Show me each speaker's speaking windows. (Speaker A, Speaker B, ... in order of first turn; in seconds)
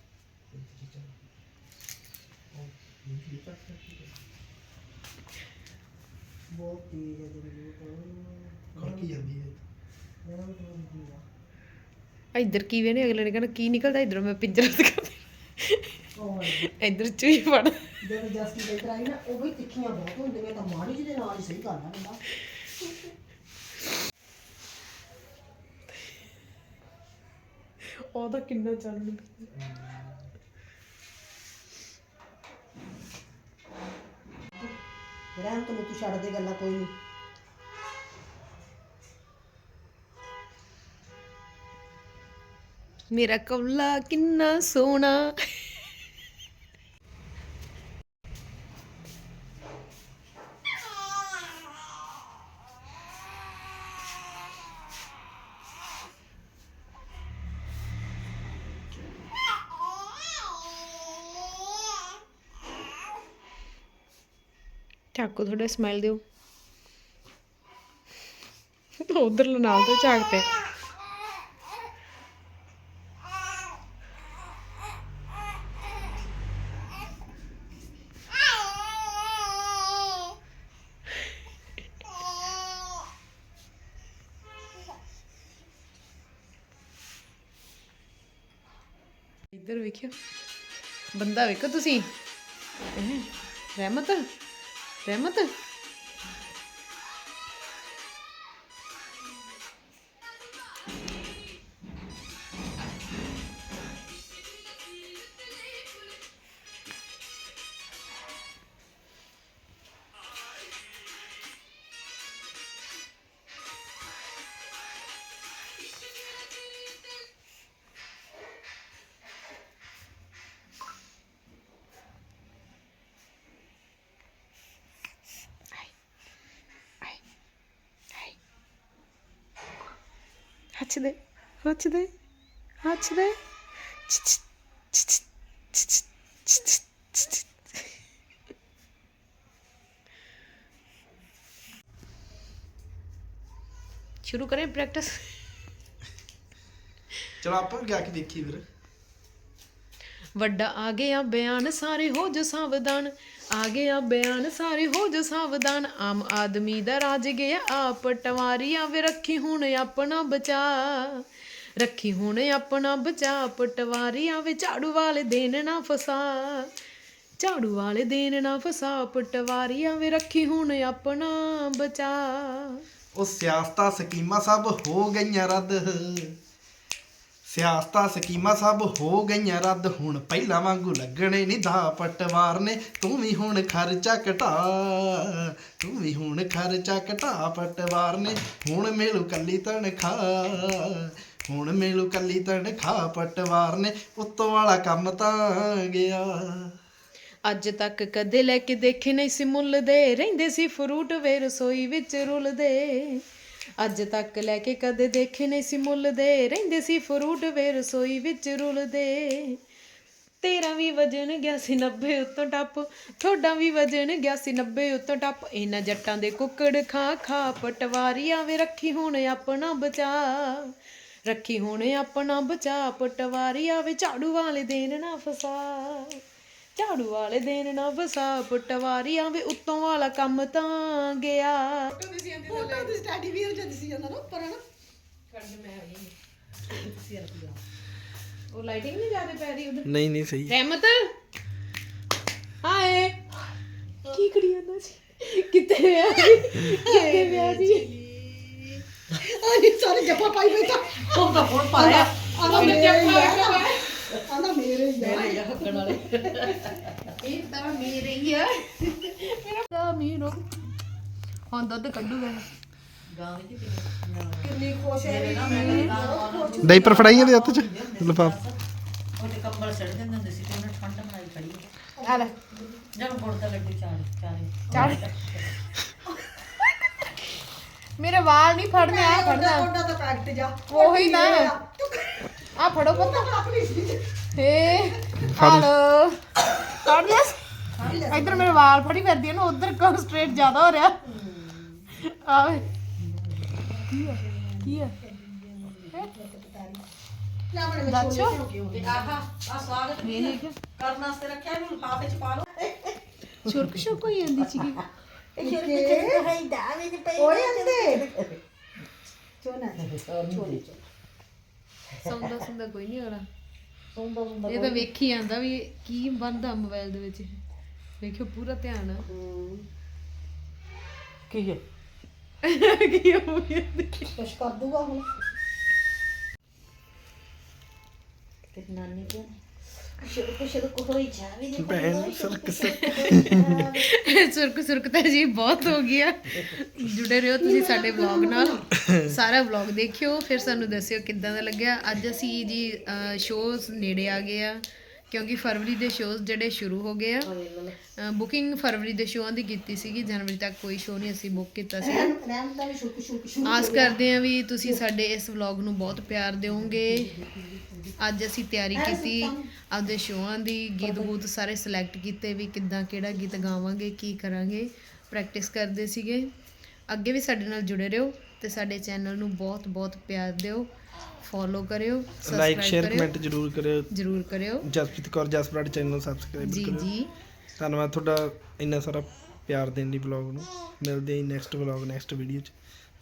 Speaker A: 0.5-1.2, 2.5-4.2, 8.8-9.6, 29.6-30.1, 147.4-148.6, 173.1-176.3, 177.4-196.7, 239.8-240.6, 266.6-268.4, 285.2-285.7, 331.6-333.7, 372.2-373.9, 374.6-376.9, 377.6-382.5
Speaker B: 6.5-9.2, 10.2-11.2, 16.2-16.7, 18.0-22.2, 35.3-36.9, 232.5-234.6, 236.7-237.6, 249.1-251.2, 251.7-255.6, 264.4-267.1, 271.9-272.9, 278.7-282.3, 282.9-284.3, 287.8-288.6, 291.0-291.8, 293.0-296.8, 297.5-299.2, 305.4-306.3, 307.1-308.1, 309.4-310.8, 313.9-314.8, 319.1-319.6, 324.1-325.1, 333.3-333.7, 337.4-338.7, 351.8-354.0, 356.5-358.0, 358.7-359.5, 360.8-361.1
Speaker C: 12.3-15.9, 16.6-17.9, 27.8-29.5, 43.1-45.7, 65.1-66.2, 69.0-70.5, 89.5-90.1, 91.1-92.1, 92.9-94.2, 95.0-95.5, 130.8-132.1, 132.8-133.4, 134.1-134.4, 134.9-135.2, 135.7-137.5, 144.2-145.3, 150.3-161.2, 161.8-166.7, 167.4-172.8, 197.4-203.2, 203.8-209.6, 210.4-220.7, 221.2-226.2, 226.7-233.0, 235.3-236.1, 238.5-239.9, 240.5-241.1, 242.6-243.2, 244.0-247.9, 252.4-253.9, 257.1-260.5, 261.5-262.4, 265.4-265.9, 272.1-272.3, 274.7-275.0, 276.8-277.2, 278.0-279.7, 280.7-281.5, 282.6-283.2, 284.3-287.5, 288.0-291.0, 291.9-292.6, 293.9-294.9, 297.8-298.4, 300.0-300.6, 303.4-304.8, 312.0-313.2, 314.5-317.4, 318.0-319.1, 322.4-324.1, 332.6-332.9, 333.8-347.3, 348.0-352.1, 353.4-357.1, 358.0-366.3, 366.9-370.7, 371.2-373.1, 373.9-374.6, 376.4-377.1
Speaker D: 247.6-248.1, 251.0-253.4, 255.0-257.0, 263.1-268.6, 269.2-271.7, 272.9-275.5, 298.7-303.0, 305.4-308.4, 309.9-310.8, 321.3-321.6, 328.5-329.4, 330.0-333.6, 347.2-347.8